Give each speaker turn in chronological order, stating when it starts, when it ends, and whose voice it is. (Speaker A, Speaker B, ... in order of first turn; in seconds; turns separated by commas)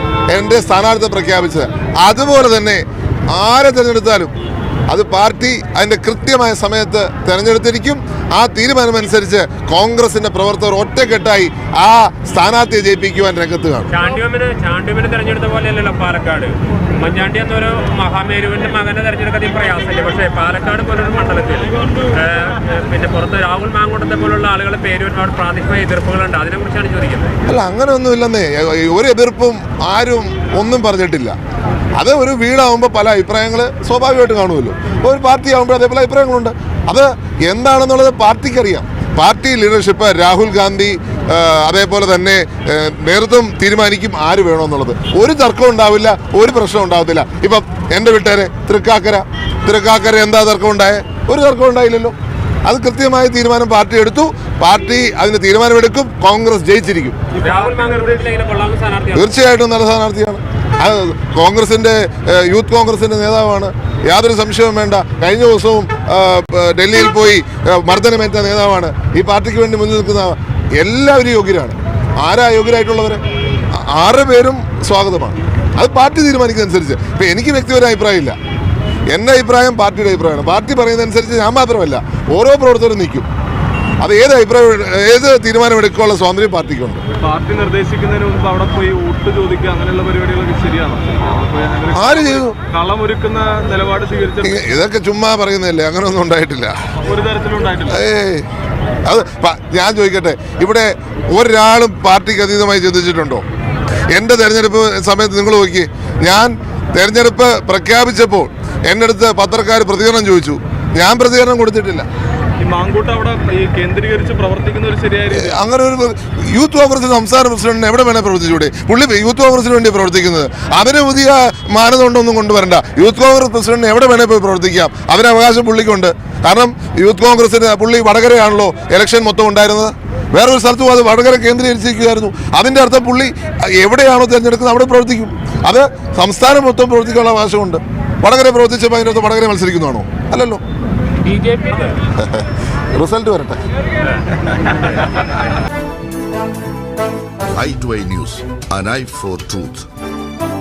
Speaker A: 0.3-4.3, Speaker A: 4.9-13.9, Speaker B: 13.9-27.4, Speaker A: 27.5-31.4, Speaker A: 31.9-52.1, Speaker A: 52.6-57.2, Speaker C: 57.4-58.2, Speaker B: 57.4-59.4, Speaker A: 59.1-73.2, Speaker A: 73.8-78.4, Speaker A: 79.1-83.3, Speaker A: 84.0-87.0, Speaker C: 87.2-94.7, Speaker A: 91.9-92.5, Speaker A: 94.4-96.7, Speaker C: 97.0-98.0, Speaker A: 97.9-98.5, Speaker A: 99.1-103.4, Speaker A: 104.1-112.1, Speaker C: 112.6-115.6, Speaker A: 115.3-140.6, Speaker B: 141.2-141.9, Speaker A: 142.9-143.6, Speaker D: 147.5-149.9